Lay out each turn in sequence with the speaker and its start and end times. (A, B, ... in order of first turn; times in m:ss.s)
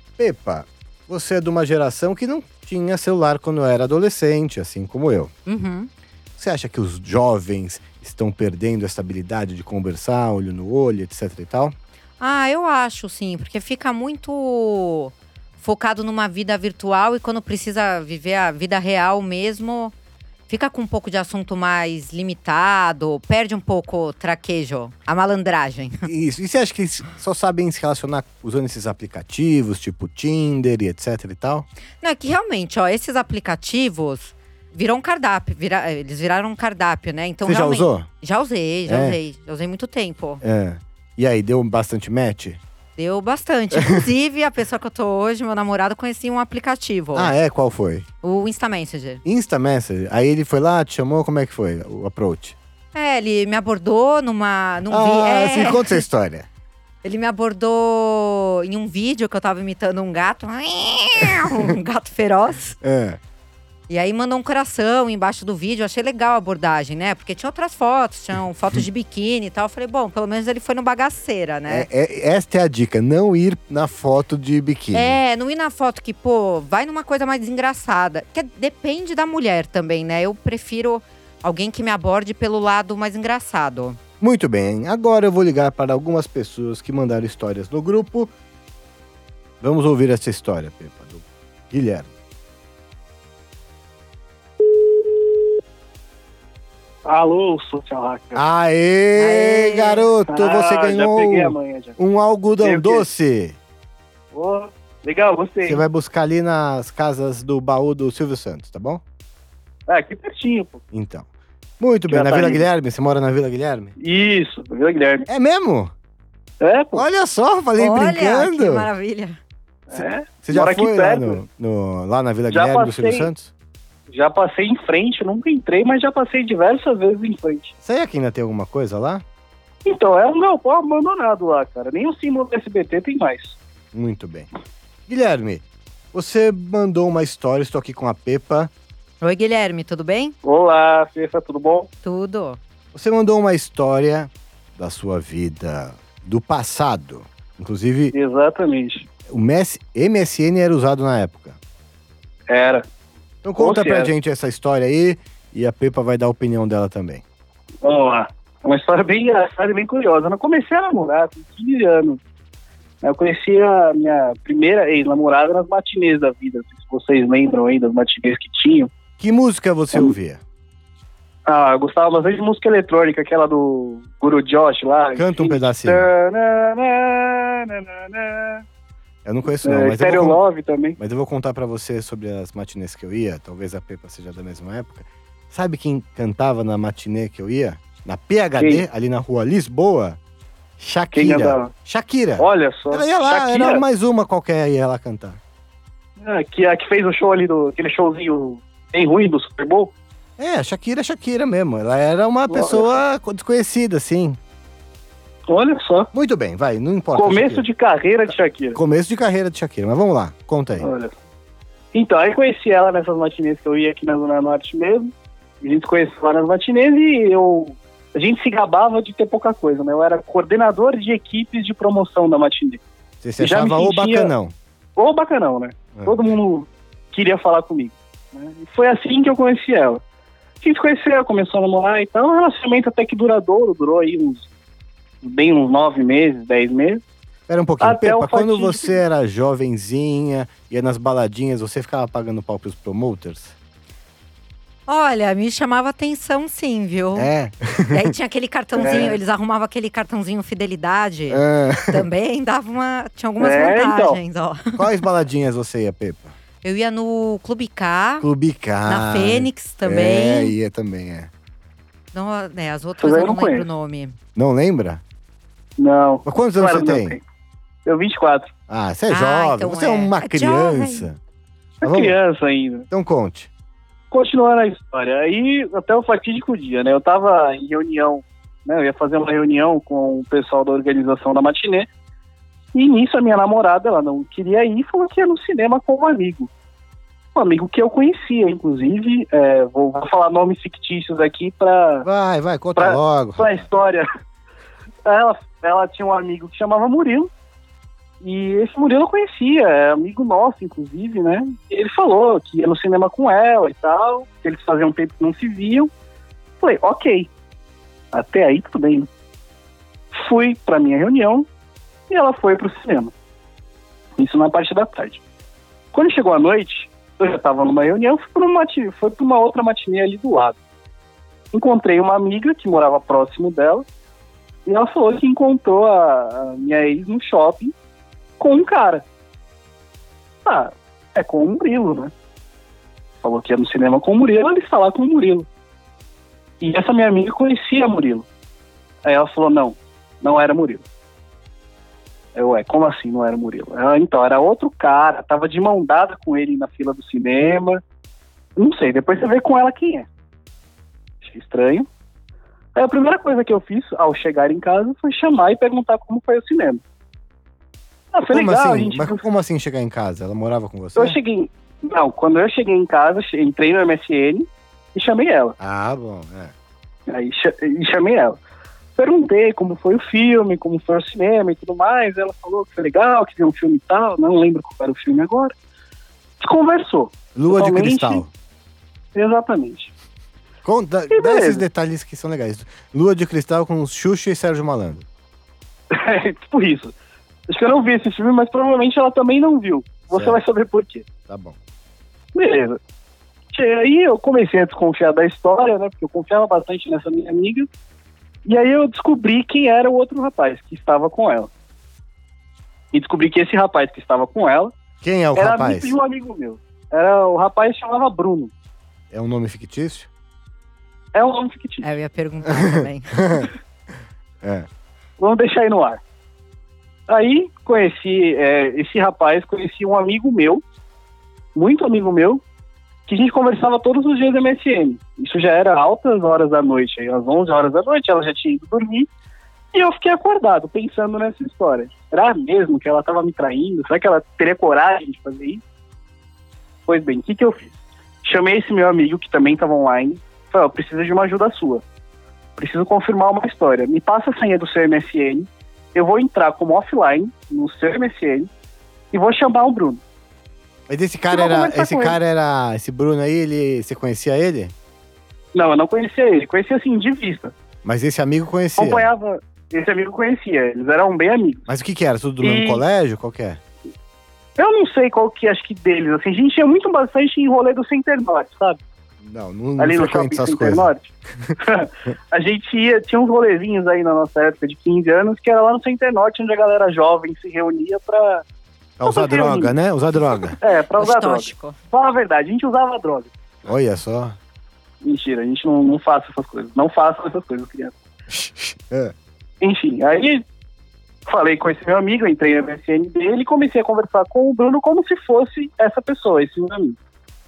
0:00.2-0:05.3 A
0:05.4-0:05.9 B
0:06.4-0:11.8 A
0:12.2-0:19.9 B
0:20.5-0:26.1 B
0:26.1-0:31.7 A
0:32.0-0:40.4 B
0:37.4-0:38.1 A
0:38.9-0:39.2 A
0:40.4-0:42.6 A
0:43.0-0:47.3 B
0:43.7-0:44.1 A
0:47.1-0:48.1 A
0:48.2-0:49.2 B
0:49.2-0:52.6 A
0:52.9-0:56.0 B
0:54.9-0:56.5 A
0:57.0-1:02.8 B
1:02.8-1:03.2 A
1:03.9-1:11.9 B
1:11.7-1:15.2 A
1:14.9-1:24.0 B
1:24.2-1:28.3 A
1:29.6-1:32.1 A
1:37.0-1:38.4 C
1:38.3-1:43.6 A
1:39.1-1:40.1 B
1:40.3-1:42.0 C
1:42.6-1:43.1 C
1:44.3-1:45.8 C
1:45.6-1:49.0 A
1:49.9-1:50.8 C
1:50.9-1:51.3 A
1:51.8-1:53.9 A
1:52.1-1:52.7 C
1:54.0-1:55.3 C
1:55.3-1:55.9 A
1:56.6-1:57.0 C
1:56.9-1:58.9 A
1:57.8-1:59.4 B
1:59.9-2:01.4 C
1:59.9-2:03.5 A
2:02.5-2:03.3 C
2:04.1-2:07.7 C
2:07.8-2:09.2 A
2:09.8-2:13.6 C
2:13.9-2:14.5 A
2:15.1-2:18.7 A
2:19.2-2:20.3 B
2:20.4-2:21.9 C
2:22.0-2:22.6 B
2:22.9-2:28.1 A
2:28.1-2:29.1 C
2:29.3-2:31.6 A
2:32.5-2:32.8 C
2:33.4-2:37.2 A
2:33.6-2:34.1 C
2:37.8-2:42.2 C
2:43.0-2:48.9 C
2:49.2-2:50.4 A
2:51.5-2:58.6 C
2:55.1-2:56.1 A
2:59.2-3:00.4 A
2:59.6-3:01.0 C
3:01.0-3:10.2 A
3:08.6-3:08.8 C
3:10.8-3:15.4 A
3:11.1-3:11.7 C
3:12.4-3:13.8 C
3:16.2-3:19.9 C
3:20.4-3:24.4 A
3:22.5-3:23.0 C
3:25.5-3:26.1 C
3:26.1-3:27.6 A
3:27.1-3:28.8 C
3:28.7-3:30.9 A
3:30.8-3:31.2 C
3:31.9-3:42.8 C
3:43.2-3:44.5 A
3:43.4-3:44.3 C
3:45.0-3:50.0 C
3:50.6-3:54.5 C
3:55.2-3:57.0 C
3:57.5-4:03.6 A
3:57.8-3:59.0 C
4:04.9-4:07.3 B
4:07.2-4:08.1 A
4:07.9-4:14.8 B
4:08.8-4:09.2 C
4:11.3-4:12.1 A
4:13.4-4:14.2 C
4:14.8-4:16.3 A
4:16.6-4:18.2 B
4:18.2-4:21.3 A
4:18.8-4:20.6 B
4:22.1-4:24.2 B
4:23.0-4:23.7 C
4:24.3-4:25.0 A
4:25.8-4:27.2 C
4:26.2-4:27.2 A
4:27.8-4:28.5 C
4:28.7-4:31.2 A
4:29.1-4:31.1 B
4:31.8-4:32.9 C
4:31.8-4:32.2 A
4:32.9-4:33.5 A
4:34.1-4:41.9 C
4:42.7-4:46.5 C
4:47.3-4:52.1 C
4:52.0-4:53.6 A
4:52.8-4:54.1 C
4:55.0-4:57.3 C
4:58.2-5:05.9 C
5:06.6-5:07.3 C
5:08.1-5:09.1 C
5:10.1-5:11.5 C
5:12.1-5:13.1 C
5:14.2-5:15.2 C
5:15.9-5:20.6 C
5:21.5-5:23.8 C
5:24.7-5:27.7 C
5:28.4-5:29.0 C
5:30.4-5:32.1 C
5:33.2-5:35.5 C
5:36.6-5:38.2 C
5:39.0-5:40.8 C
5:42.3-5:47.8 C
5:48.6-5:50.1 C
5:51.2-5:51.8 C
5:52.7-5:56.8 C
5:58.1-5:59.2 C
5:58.3-6:01.2 A
6:00.9-6:05.6 C
6:05.6-6:06.5 A
6:07.1-6:08.4 C
6:09.0-6:15.5 C
6:16.4-6:18.2 C
6:17.3-6:18.3 A
6:19.2-6:19.9 C
6:20.6-6:25.0 A
6:21.1-6:21.6 C
6:25.9-6:26.9 C
6:27.5-6:31.1 C
6:30.1-6:30.4 A
6:31.3-6:31.6 A
6:32.3-6:32.8 C
6:33.5-6:37.7 C
6:38.4-6:41.5 C
6:42.9-6:44.7 C
6:45.0-6:45.9 A
6:45.4-6:48.5 C
6:49.1-6:50.1 A
6:51.1-6:51.9 C
6:51.8-6:53.5 B
6:52.7-6:53.5 A
6:55.2-6:56.0 C
6:57.1-7:00.6 C
7:01.6-7:02.4 C
7:03.1-7:09.1 C
7:09.7-7:15.6 C
7:16.9-7:21.8 C
7:22.6-7:28.5 C
7:29.1-7:30.0 C
7:30.9-7:34.7 A
7:31.3-7:32.2 C
7:35.5-7:37.5 C
7:37.8-7:39.1 A
7:38.8-7:41.7 C
7:41.7-7:43.6 A
7:42.4-7:42.8 C
7:44.6-7:48.8 C
7:49.2-7:50.9 A
7:49.8-7:58.4 C
7:59.0-8:00.6 A
7:59.0-7:59.8 C
8:00.6-8:03.3 C
8:01.0-8:01.8 B
8:03.6-8:04.4 A
8:05.0-8:07.9 C
8:08.3-8:09.1 A
8:09.6-8:10.4 C
8:11.2-8:17.0 C